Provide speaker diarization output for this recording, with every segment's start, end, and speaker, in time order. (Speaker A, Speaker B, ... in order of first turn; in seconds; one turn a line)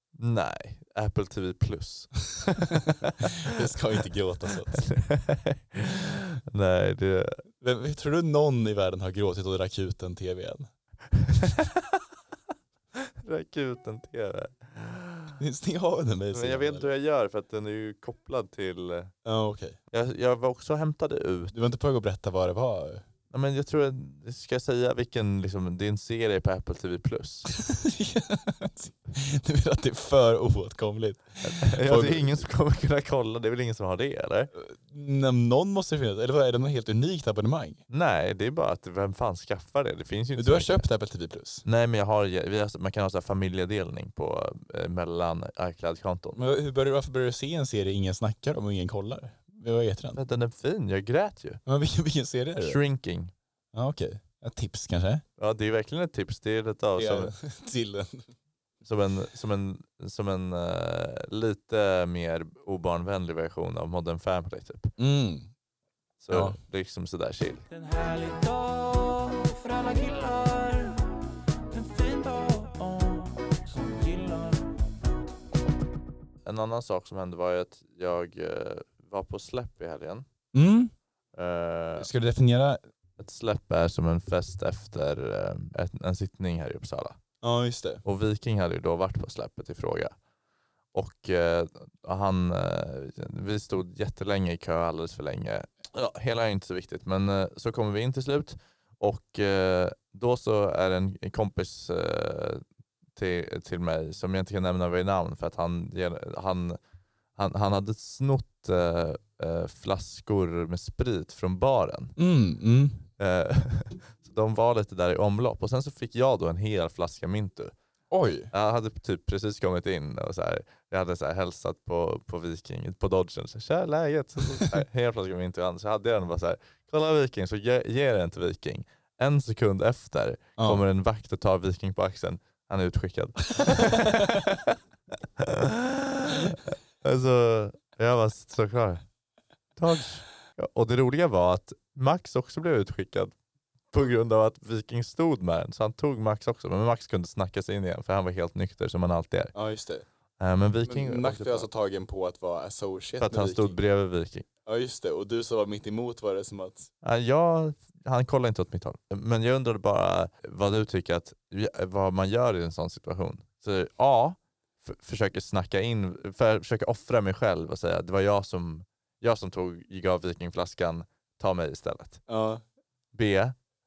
Speaker A: 0.1-3.0
Speaker B: 2.9-4.9
Speaker A: 4.7-7.4
Speaker B: 7.6-10.7
Speaker A: 11.3-11.8
Speaker A: 13.0-15.3
Speaker B: 15.4-16.9
Speaker A: 16.3-19.1
Speaker B: 19.2-19.8
Speaker A: 19.9-21.5
Speaker B: 21.5-23.0
Speaker A: 23.3-27.5
Speaker B: 27.6-32.5
Speaker A: 31.4-34.5
Speaker B: 34.5-37.8
Speaker A: 37.9-40.9
Speaker B: 40.4-41.6
Speaker A: 41.6-46.4
Speaker B: 46.3-50.2
Speaker A: 50.1-51.6
Speaker B: 51.6-52.8
Speaker A: 52.6-53.3
Speaker B: 53.7-55.2
Speaker A: 55.4-57.3
Speaker B: 57.0-58.3
Speaker A: 58.8-64.9
Speaker B: 65.0-65.5
Speaker A: 66.2-67.7
Speaker B: 66.3-66.6
Speaker C: 67.7-70.9
Speaker C: 71.7-74.5
Speaker A: 76.4-80.2
Speaker B: 80.5-80.9
Speaker A: 81.3-82.1
Speaker B: 82.0-82.8
Speaker A: 83.2-87.2
Speaker B: 87.4-88.0
Speaker A: 88.0-90.1
Speaker A: 90.9-102.6
Speaker A: 103.2-106.8
Speaker A: 107.3-112.1
Speaker B: 112.2-113.0
Speaker A: 113.2-117.7
Speaker B: 118.1-118.5
Speaker A: 118.5-134.7
Speaker B: 130.6-130.8
Speaker A: 135.4-139.0
Speaker A: 139.8-143.3
Speaker A: 143.9-149.5
Speaker B: 149.5-150.1
Speaker A: 150.4-151.7
Speaker B: 150.8-153.8
Speaker A: 153.2-154.4
Speaker B: 154.7-156.9
Speaker A: 157.0-172.2
Speaker B: 172.3-172.6
Speaker A: 173.1-173.6